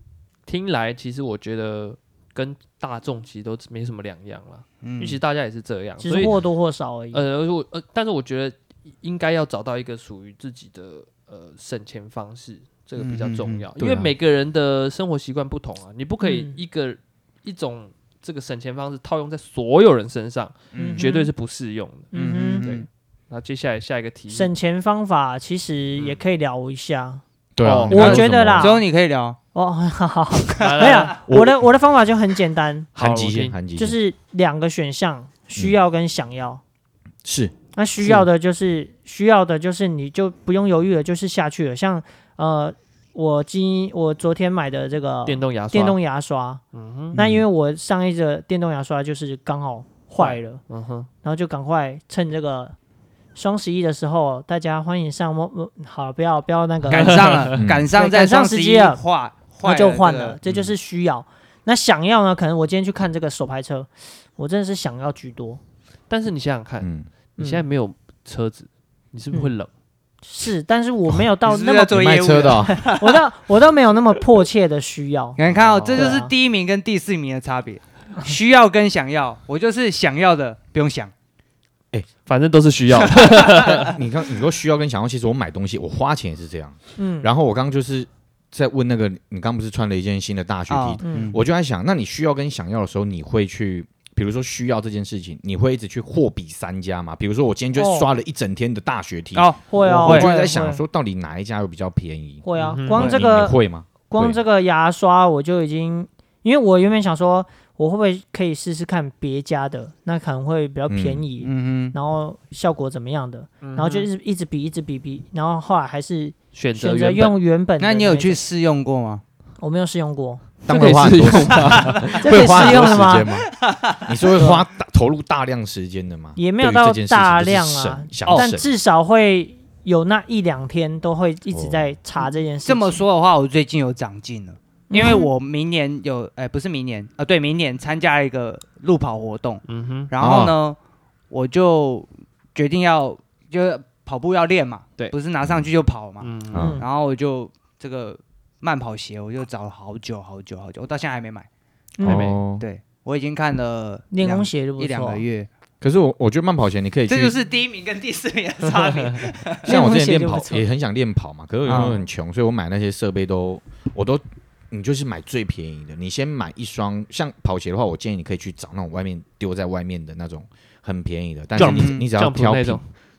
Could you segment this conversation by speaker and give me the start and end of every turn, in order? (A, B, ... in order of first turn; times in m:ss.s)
0:00.4-0:06.4 A
0:04.8-0:05.2 B
0:06.0-0:07.2 C
0:07.1-0:24.5 A
0:13.0-0:13.6 B
0:13.8-0:14.1 D
0:16.2-0:16.6 C
0:20.7-0:21.1 B
0:20.8-0:21.3 C
0:22.1-0:22.7 C
0:22.1-0:22.9 B
0:24.3-0:27.2 C
0:27.6-0:28.7 D
0:27.6-0:28.1 A
0:27.9-0:28.8 C
0:27.9-0:29.4 B
0:29.5-0:32.9 C
0:30.6-0:31.2 A
0:30.6-0:31.1 B
0:31.3-0:31.6 D
0:33.0-0:34.0 D
0:33.0-0:33.6 A
0:33.8-0:36.6 C
0:37.2-0:37.5 D
0:37.7-0:46.6 C
0:45.2-0:46.0 A
0:46.7-0:47.2 A
0:47.1-0:47.4 D
0:47.1-0:50.6 C
0:50.2-0:51.1 A
0:51.2-0:52.7 C
0:53.3-0:59.0 C
0:56.9-1:00.4 B
0:56.9-0:57.5 A
0:57.6-0:57.9 D
0:59.6-1:05.6 C
1:00.4-1:00.7 D
1:06.1-1:09.7 A
1:06.8-1:07.1 D
1:07.4-1:07.6 C
1:10.2-1:15.4 C
1:11.4-1:13.2 B
1:11.9-1:12.8 D
1:15.4-1:21.1 B
1:15.6-1:16.2 A
1:15.9-1:16.3 C
1:22.2-1:24.0 A
1:23.4-1:44.4 D
1:27.0-1:27.3 C
1:30.7-1:31.4 B
1:31.0-1:31.3 C
1:37.7-1:38.1 C
1:39.3-1:40.5 B
1:39.7-1:40.8 C
1:42.4-1:43.6 C
1:42.6-1:43.2 A
1:44.1-1:58.4 C
1:50.9-1:51.2 D
1:51.4-1:51.9 B
1:53.6-1:54.1 A
1:56.5-1:57.4 A
1:57.8-1:59.2 B
1:59.6-2:00.5 C
2:00.6-2:02.6 A
2:00.6-2:08.7 D
2:02.1-2:03.3 C
2:03.6-2:04.2 B
2:04.4-2:04.6 C
2:06.4-2:13.0 C
2:11.5-2:11.8 D
2:12.2-2:20.8 B
2:14.9-2:15.3 C
2:19.7-2:20.1 A
2:20.2-2:20.5 D
2:21.3-2:31.5 B
2:26.2-2:26.7 A
2:26.5-2:26.8 D
2:26.6-2:26.8 C
2:32.0-2:32.3 C
2:32.0-2:32.6 D
2:32.0-2:32.4 A
2:32.6-2:35.5 B
2:34.1-2:35.2 C
2:35.8-2:37.3 D
2:37.1-2:39.8 B
2:39.6-2:52.8 D
2:39.6-2:40.6 C
2:41.6-2:42.0 B
2:51.6-2:52.8 A
2:51.6-2:52.1 B